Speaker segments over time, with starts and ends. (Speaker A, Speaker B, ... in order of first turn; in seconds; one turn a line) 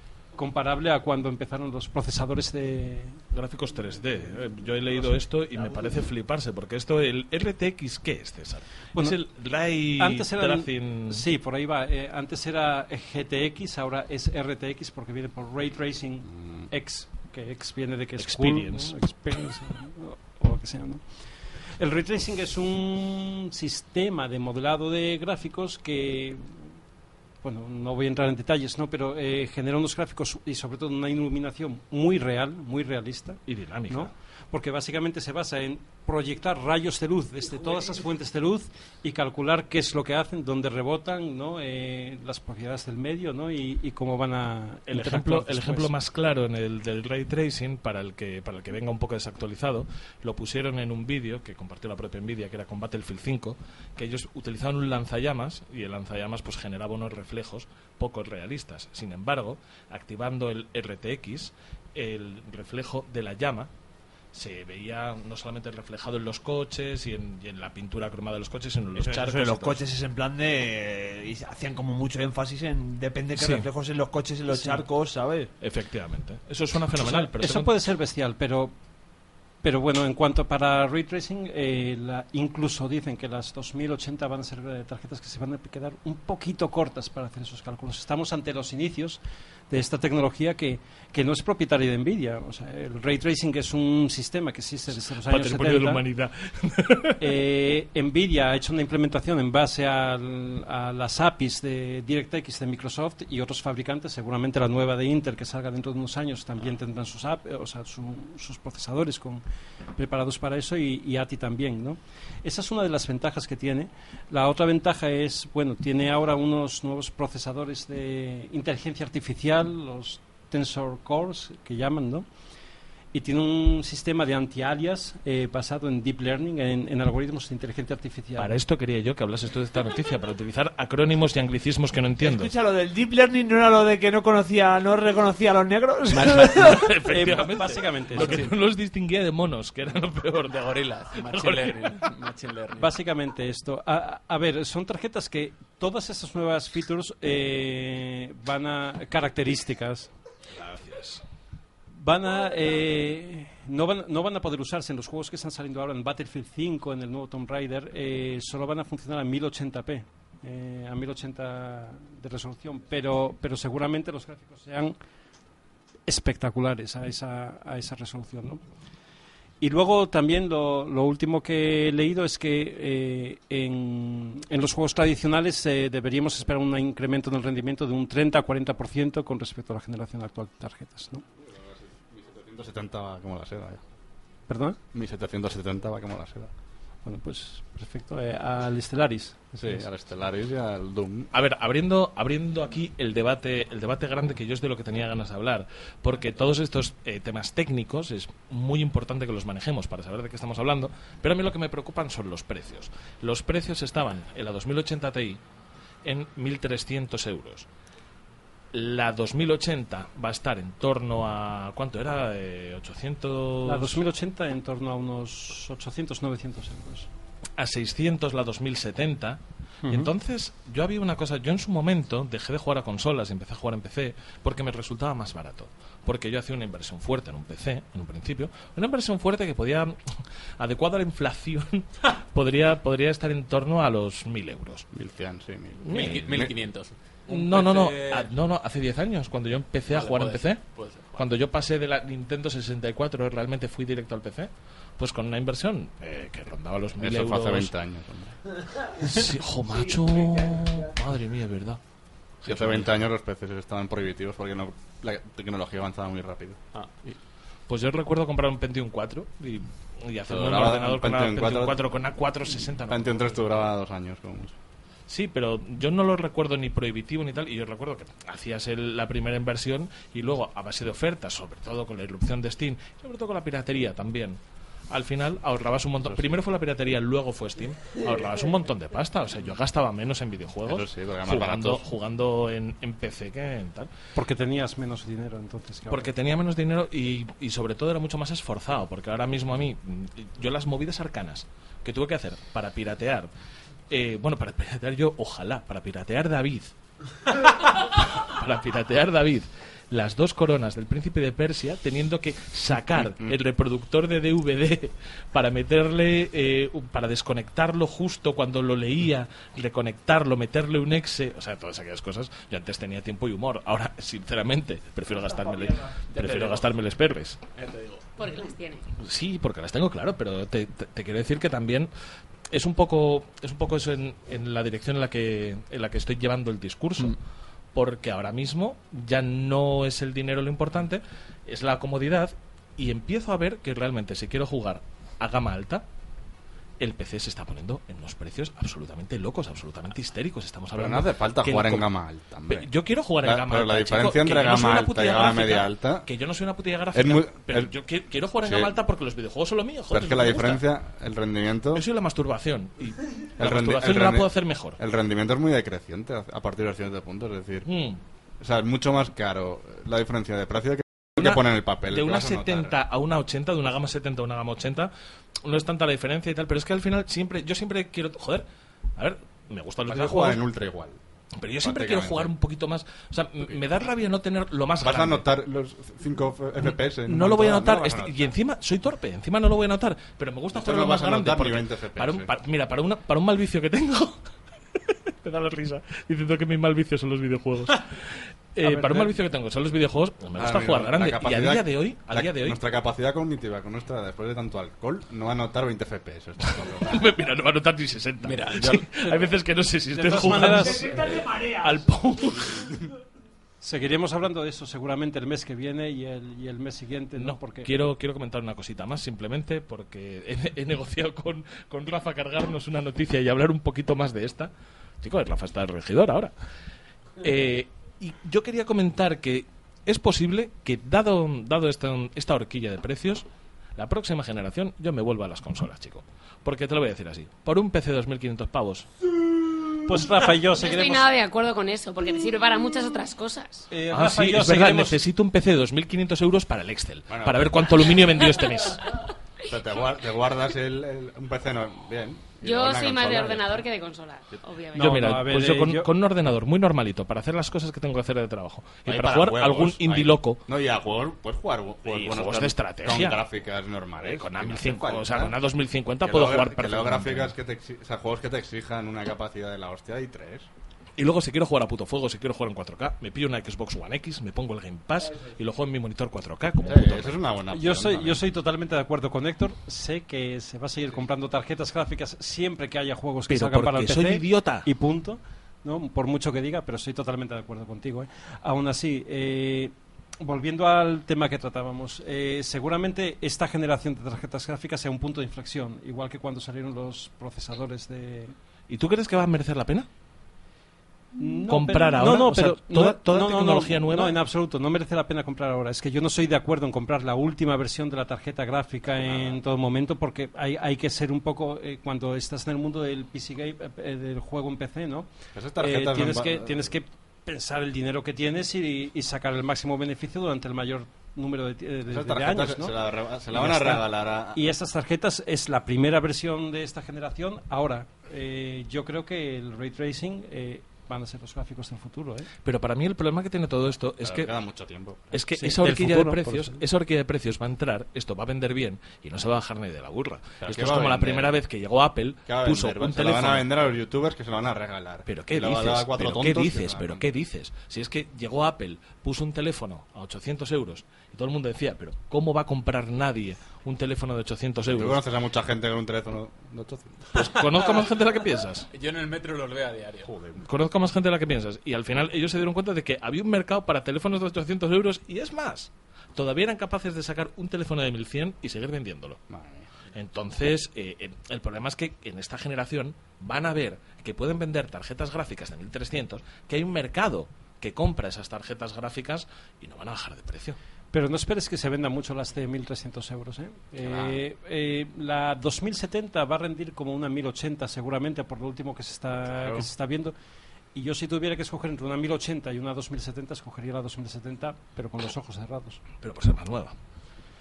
Speaker A: 0.3-3.2
Speaker B: 3.3-11.2
Speaker A: 10.0-21.0
Speaker B: 18.2-18.9
Speaker A: 21.8-26.6
Speaker A: 27.4-45.9
Speaker B: 33.5-34.1
Speaker B: 44.9-63.7
Speaker B: 64.3-69.8
Speaker C: 69.0-75.5
Speaker B: 73.4-73.7
Speaker A: 74.5-74.8
Speaker B: 75.6-77.7
Speaker A: 77.0-78.7
Speaker A: 79.6-96.0
Speaker B: 95.2-97.3
Speaker A: 97.2-109.4
Speaker A: 110.0-122.2
Speaker A: 123.1-128.6
Speaker B: 128.4-132.5
Speaker C: 132.2-136.8
Speaker D: 136.2-136.6
Speaker B: 136.2-142.0
Speaker A: 137.0-138.4
Speaker D: 138.1-138.6
Speaker D: 140.4-142.9
Speaker A: 142.8-150.1
Speaker B: 150.5-151.2
Speaker A: 152.0-164.9
Speaker A: 166.1-168.6
Speaker A: 169.6-181.2
Speaker E: 182.0-183.8
Speaker A: 184.5-184.8
Speaker E: 184.9-186.5
Speaker A: 187.0-189.8
Speaker E: 189.6-191.3
Speaker B: 191.3-205.4
Speaker B: 206.0-207.7
Speaker B: 208.7-214.0
Speaker A: 213.6-217.1
Speaker B: 217.6-230.0
Speaker A: 219.8-220.1
Speaker B: 230.6-234.9
Speaker E: 234.9-236.5
Speaker B: 235.8-236.4
Speaker D: 235.9-238.3
Speaker B: 237.3-240.6
Speaker D: 239.9-241.3
Speaker B: 241.1-247.7
Speaker E: 247.0-248.3
Speaker B: 249.0-251.8
Speaker E: 252.4-256.6
Speaker B: 252.5-252.9
Speaker D: 256.7-257.2
Speaker B: 257.7-263.6
Speaker E: 260.3-261.8
Speaker E: 262.9-264.5
Speaker B: 265.1-274.4
Speaker B: 274.9-283.9
Speaker E: 280.6-281.8
Speaker A: 284.1-286.1
Speaker B: 285.9-293.3
Speaker B: 293.9-296.7
Speaker B: 297.3-317.4
Speaker E: 302.9-303.3
Speaker C: 315.4-315.8
Speaker D: 316.1-316.7
Speaker D: 317.5-318.1
Speaker F: 318.2-318.8
Speaker B: 319.0-321.9
Speaker B: 322.5-327.2
Speaker B: 327.7-335.8
Speaker B: 336.8-341.9
Speaker E: 340.7-342.7
Speaker B: 342.5-350.6
Speaker E: 343.2-346.1
Speaker E: 346.9-347.7
Speaker E: 348.4-348.7
Speaker E: 349.9-351.8
Speaker B: 351.7-354.8
Speaker E: 353.4-357.7
Speaker B: 357.6-358.0
Speaker E: 358.4-362.8
Speaker B: 361.2-364.9
Speaker B: 365.4-368.4
Speaker B: 369.0-370.4
Speaker E: 369.9-371.0
Speaker B: 371.4-375.3
Speaker E: 371.6-372.3
Speaker E: 374.8-378.3
Speaker B: 376.6-384.2
Speaker E: 380.5-382.3
Speaker B: 384.9-392.6
Speaker A: 388.6-389.1
Speaker E: 390.4-397.1
Speaker B: 396.8-402.8
Speaker D: 398.2-398.9
Speaker A: 399.9-401.0
Speaker C: 400.5-401.9
Speaker A: 403.6-407.7
Speaker B: 407.1-416.3
Speaker B: 417.2-423.2
Speaker B: 423.8-428.9
Speaker A: 429.7-431.1
Speaker F: 430.4-433.7
Speaker A: 433.7-435.0
Speaker B: 433.9-438.9
Speaker E: 437.1-438.0
Speaker E: 439.4-443.6
Speaker F: 442.4-445.1
Speaker A: 444.7-445.9
Speaker B: 444.8-450.4
Speaker E: 448.9-455.3
Speaker B: 451.8-453.2
Speaker B: 454.0-457.3
Speaker E: 456.0-460.5
Speaker B: 461.0-467.2
Speaker E: 466.6-468.2
Speaker A: 467.5-488.3
Speaker B: 473.3-474.7
Speaker B: 488.7-489.9
Speaker A: 491.1-512.7
Speaker B: 491.5-494.2
Speaker E: 498.9-499.4
Speaker E: 505.3-506.7
Speaker E: 511.9-514.5
Speaker A: 513.3-522.3
Speaker B: 522.4-524.3
Speaker E: 524.0-525.1
Speaker B: 525.1-533.5
Speaker A: 525.3-526.6
Speaker E: 530.4-531.3
Speaker E: 532.3-537.0
Speaker B: 535.0-545.0
Speaker E: 544.6-547.3
Speaker B: 547.1-548.7
Speaker D: 548.7-550.1
Speaker E: 550.1-550.4
Speaker B: 550.4-559.2
Speaker E: 559.3-559.7
Speaker B: 559.9-570.6
Speaker A: 570.9-580.1
Speaker E: 573.8-574.2
Speaker A: 580.7-585.8
Speaker B: 586.0-586.7